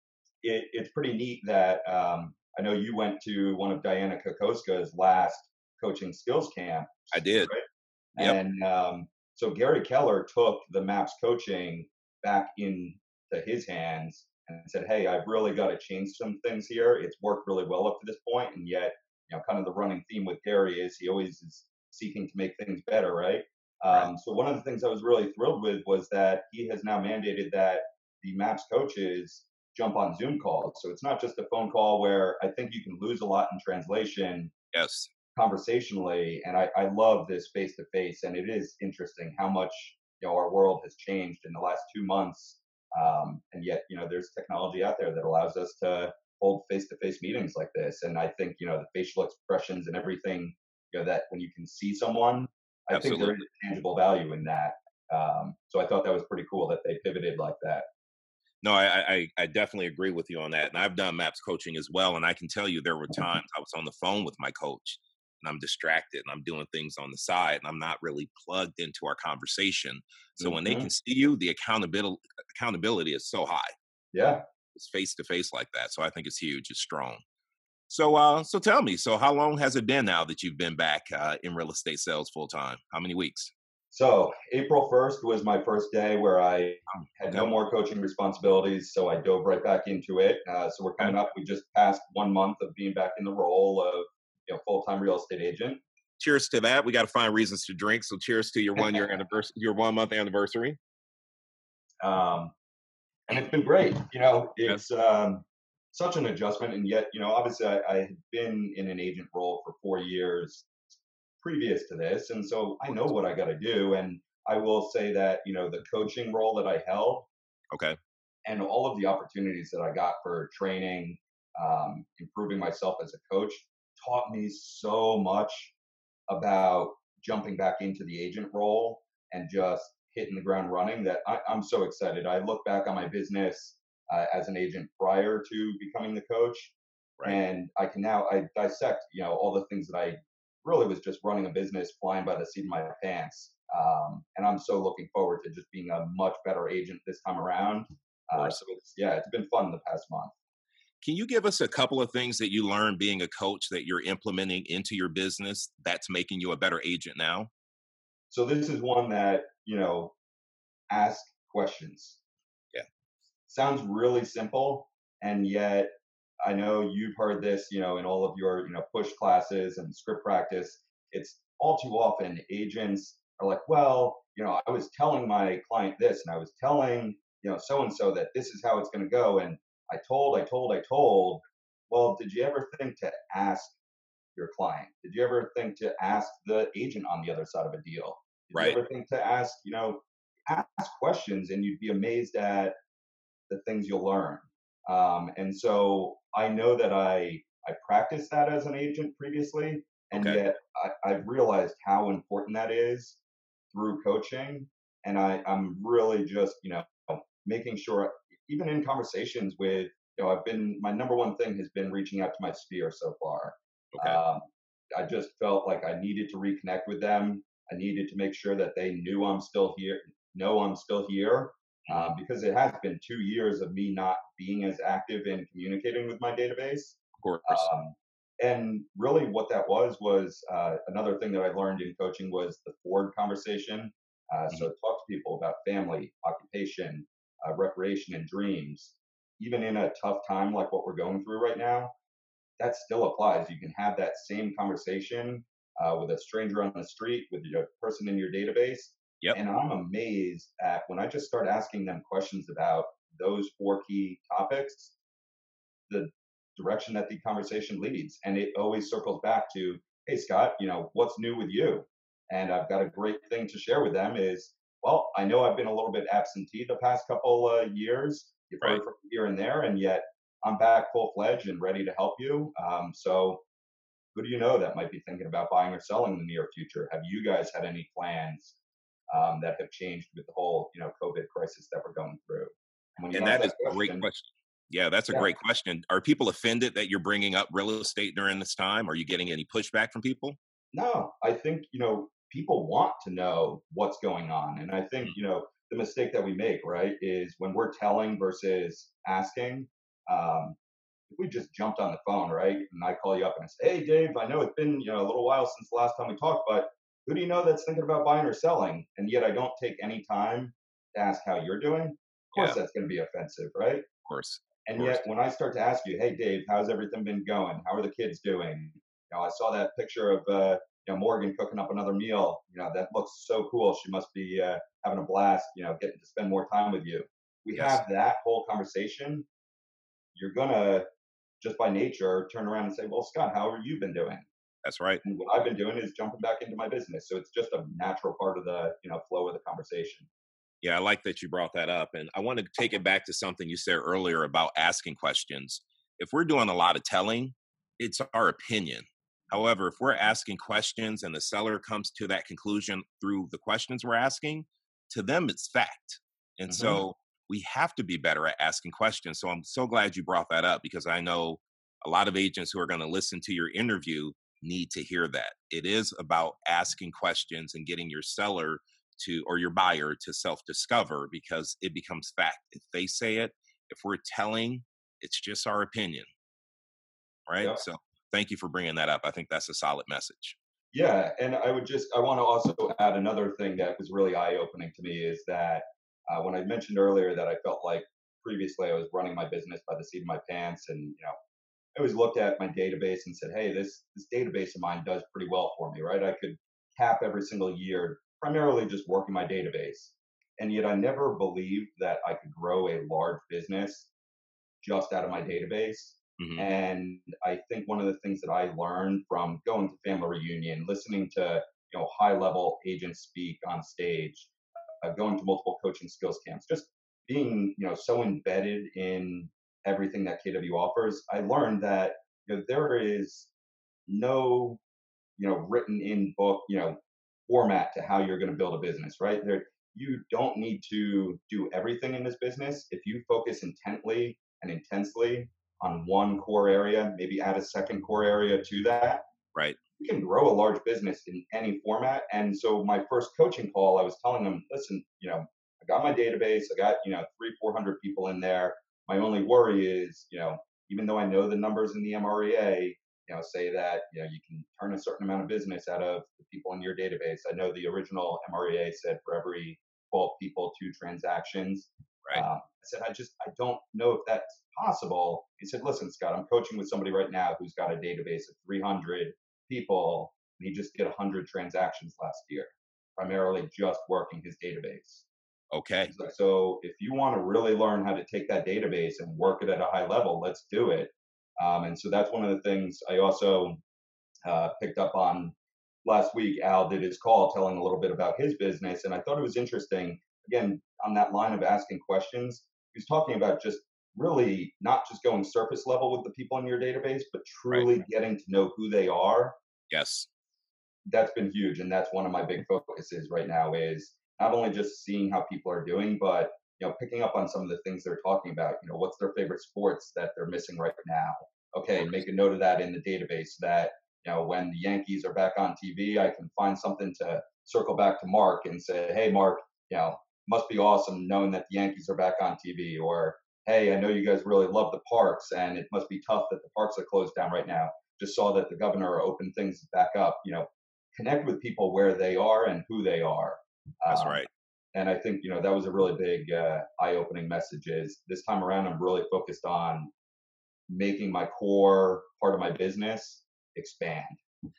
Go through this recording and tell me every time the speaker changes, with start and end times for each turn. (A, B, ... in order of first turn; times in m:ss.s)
0:00.4-0:07.6 A
0:07.1-0:07.5 B
0:08.2-0:34.5 A
0:34.7-0:35.1 B
0:35.3-0:57.8 A
0:52.9-0:53.4 B
0:58.6-1:13.7 B
1:10.4-1:10.9 A
1:14.1-1:14.4 A
1:14.8-1:17.2 B
1:17.9-1:23.5 B
1:23.9-1:35.8 A
1:26.9-1:27.5 B
1:36.2-1:40.8 B
1:38.8-1:39.0 A
1:42.0-1:42.5 A
1:43.3-1:50.7 A
1:51.4-1:57.3 A
1:57.7-1:58.0 B
1:58.4-2:05.7 A
2:06.3-2:30.3 A
2:28.3-2:28.6 B
2:31.0-2:37.5 B
2:38.3-2:40.1 A
2:40.9-2:42.2 A
2:43.5-2:45.9 A
2:46.4-3:03.8 A
3:04.3-3:12.7 A
3:13.5-3:23.2 A
3:20.1-3:20.4 B
3:23.7-4:01.9 A
3:33.9-3:34.2 B
3:41.9-3:42.1 B
3:47.2-3:47.7 B
4:02.6-4:15.0 A
4:15.9-4:33.4 A
4:34.1-4:38.6 A
4:39.1-4:44.1 A
4:43.1-4:50.4 B
4:50.7-5:00.6 A
5:01.1-5:13.8 A
5:14.1-5:15.0 B
5:14.6-5:29.2 A
5:27.5-5:27.8 B
5:30.1-5:30.8 A
5:31.4-5:34.2 A
5:34.6-5:35.0 B
5:35.0-5:40.1 A
5:40.6-6:16.1 B
5:56.5-5:56.8 A
6:17.3-6:20.4 B
6:20.7-6:31.1 A
6:31.7-6:43.9 A
6:44.6-6:54.3 A
6:46.2-6:46.5 B
6:54.8-7:03.3 A
7:03.9-7:04.6 A
7:05.2-7:19.0 A
7:19.8-7:55.1 A
7:55.5-7:55.9 B
7:55.9-8:03.6 A
8:04.3-8:19.4 A
8:17.5-8:17.8 B
8:19.7-8:20.1 B
8:20.9-8:54.2 A
8:53.9-8:54.3 B
8:54.7-8:59.9 A
9:00.7-9:04.2 A